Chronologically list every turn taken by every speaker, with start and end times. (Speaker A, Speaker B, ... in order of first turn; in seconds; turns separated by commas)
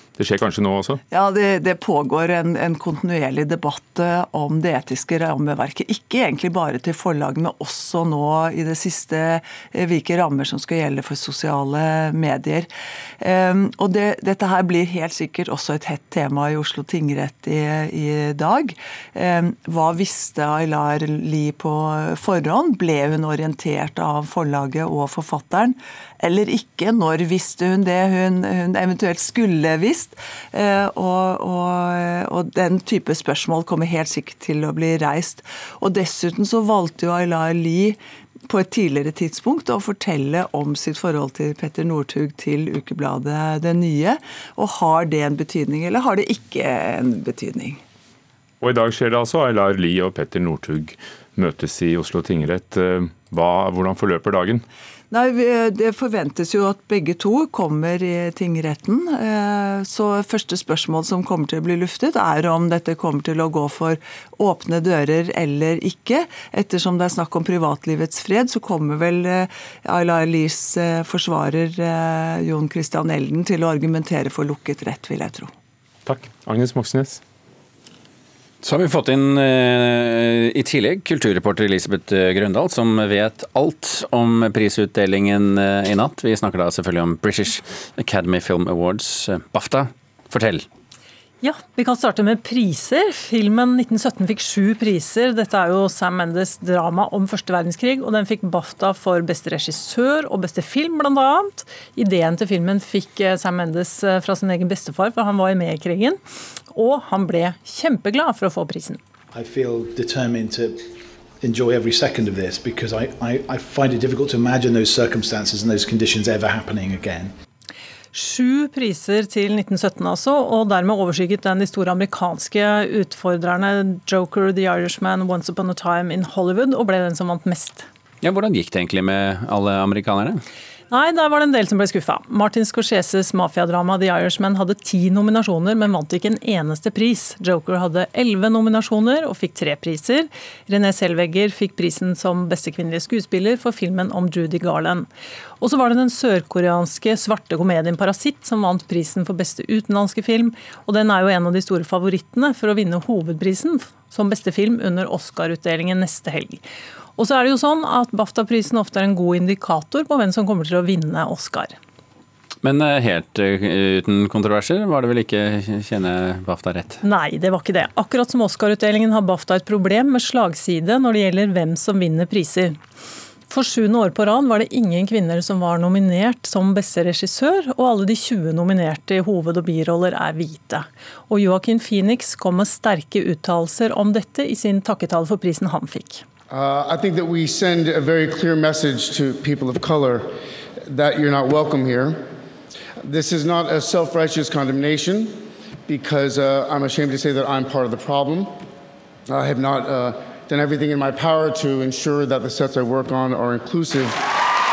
Speaker A: 0.2-1.0, Speaker B: 1.1-12.7, Speaker B: 13.2-38.0, Speaker B: 38.5-47.8, Speaker A: 48.6-54.6, Speaker B: 55.1-75.5, Speaker A: 76.0-77.2, Speaker C: 78.6-90.7, Speaker D: 91.4-106.2, Speaker D: 106.7-109.0, Speaker E: 109.4-110.8, Speaker E: 111.4-117.3, Speaker D: 118.1-127.8, Speaker C: 128.2-130.4, Speaker D: 130.9-145.1, Speaker D: 145.6-156.6, Speaker D: 157.2-161.7, Speaker C: 162.6-167.0, Speaker D: 167.0-172.8, Speaker D: 173.5-186.2, Speaker F: 186.5-190.3, Speaker F: 190.8-192.2, Speaker F: 193.0-195.3, Speaker F: 195.9-198.5, Speaker F: 199.3-204.2